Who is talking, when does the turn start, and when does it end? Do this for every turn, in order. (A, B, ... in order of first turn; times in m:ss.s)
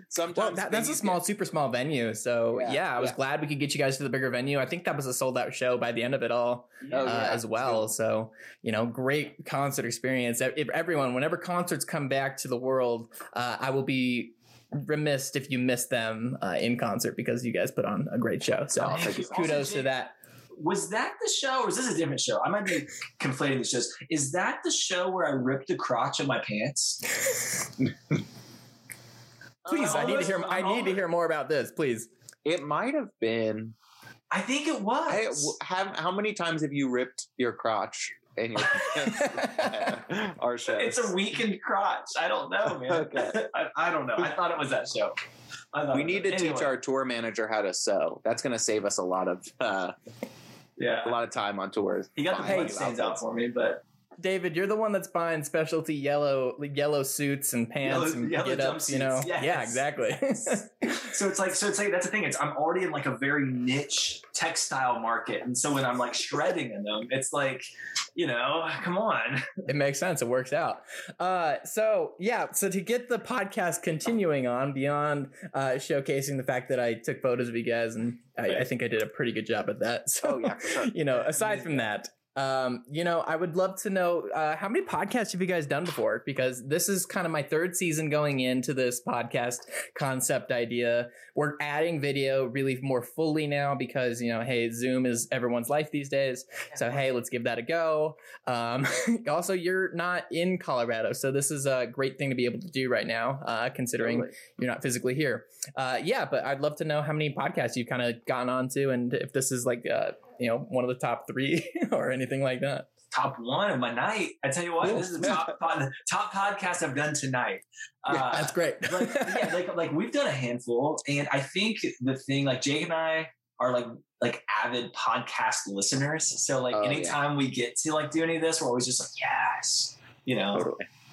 0:00.1-0:01.2 A
0:00.3-0:20.1 B
0:02.5-0:03.2 A
0:06.8-0:07.5 C
0:06.9-0:07.8 A
0:18.8-0:19.6 A
0:18.9-0:20.0 C
0:20.5-0:27.0 C
0:29.6-0:30.3 A
0:29.7-0:31.0 C
0:29.7-0:32.1 B
0:32.4-0:33.7 A
0:34.3-0:35.5 C
0:35.1-0:41.1 A
0:38.7-0:39.9 B
0:40.7-0:45.1 C
0:42.6-0:43.4 A
0:45.7-0:46.7 C
0:45.9-0:49.9 A
0:50.8-0:51.2 C
0:51.0-0:53.2 A
0:52.2-0:53.8 C
0:52.4-0:52.7 B
0:54.2-1:01.1 B
0:57.8-0:59.8 C
1:00.9-1:09.6 C
1:09.6-1:52.9 B
1:20.2-1:21.8 A
1:44.0-1:44.3 A
1:53.1-2:10.7 C
1:54.8-1:55.4 B
1:58.1-1:59.5 B
2:06.7-2:07.2 A
2:10.5-2:10.8 A